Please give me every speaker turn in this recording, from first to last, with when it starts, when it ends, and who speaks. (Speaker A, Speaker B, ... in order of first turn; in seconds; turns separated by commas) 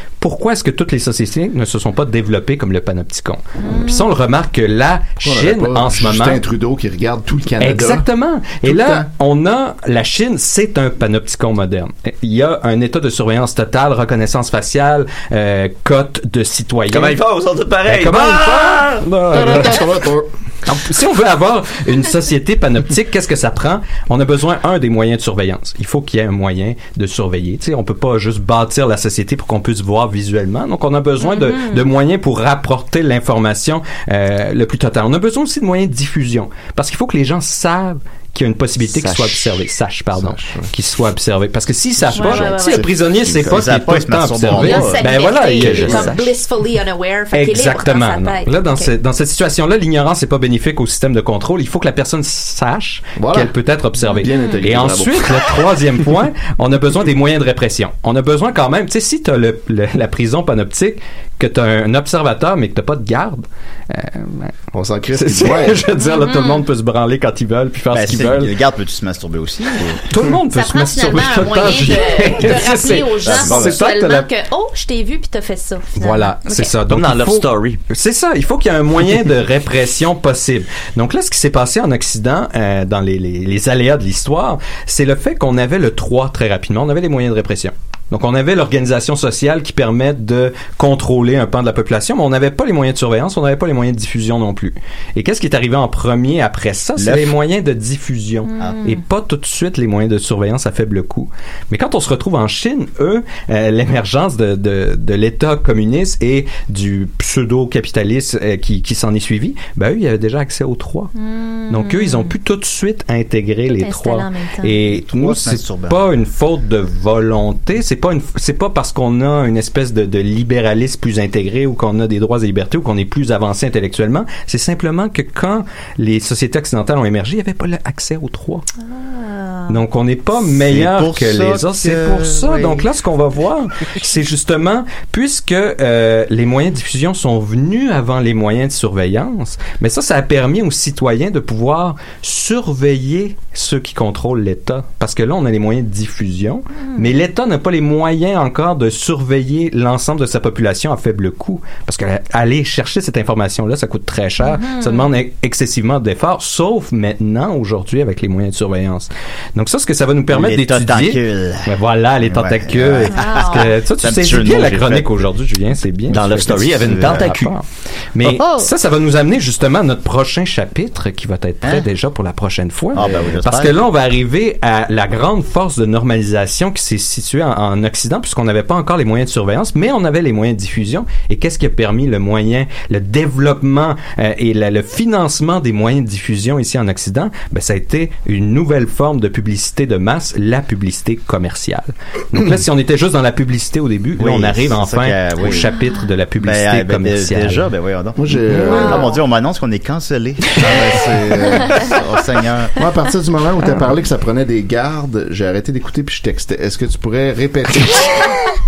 Speaker A: 0.2-6.4, Speaker B: 3.6-4.1, Speaker C: 5.2-8.0, Speaker A: 7.6-17.2, Speaker C: 8.6-9.1, Speaker D: 16.9-19.7, Speaker A: 17.9-19.9, Speaker C: 19.3-20.3, Speaker A: 20.6-46.2, Speaker B: 31.2-31.9, Speaker D: 38.8-39.6, Speaker C: 40.1-40.7, Speaker C: 42.0-43.6, Speaker B: 42.1-42.9, Speaker E: 43.3-45.1, Speaker B: 44.5-48.9, Speaker D: 45.5-46.2, Speaker A: 47.3-64.5, Speaker C: 53.2-55.4, Speaker B: 54.0-54.6, Speaker C: 64.7-65.9, Speaker A: 65.1-68.5, Speaker B: 66.0-66.7, Speaker E: 67.9-70.0, Speaker A: 70.0-74.3, Speaker B: 70.5-76.8, Speaker E: 73.2-73.8, Speaker A: 75.9-111.1, Speaker D: 76.9-77.8, Speaker E: 97.0-97.3, Speaker B: 98.5-99.0, Speaker E: 98.6-98.8, Speaker B: 111.1-112.3, Speaker A: 111.7-128.6, Speaker B: 113.7-114.8, Speaker E: 114.8-116.0, Speaker B: 128.8-129.8, Speaker A: 129.7-197.7, Speaker E: 130.4-132.9, Speaker B: 146.8-147.1, Speaker B: 154.4-155.1, Speaker E: 160.3-165.3, Speaker B: 163.1-163.8, Speaker D: 166.1-167.5, Speaker E: 166.9-167.2, Speaker E: 168.2-168.7, Speaker E: 171.6-171.9, Speaker E: 172.9-173.8, Speaker E: 194.2-195.8, Speaker E: 196.4-202.8, Speaker C: 198.2-199.1, Speaker B: 198.7-199.2, Speaker C: 201.4-201.9, Speaker C: 202.8-208.3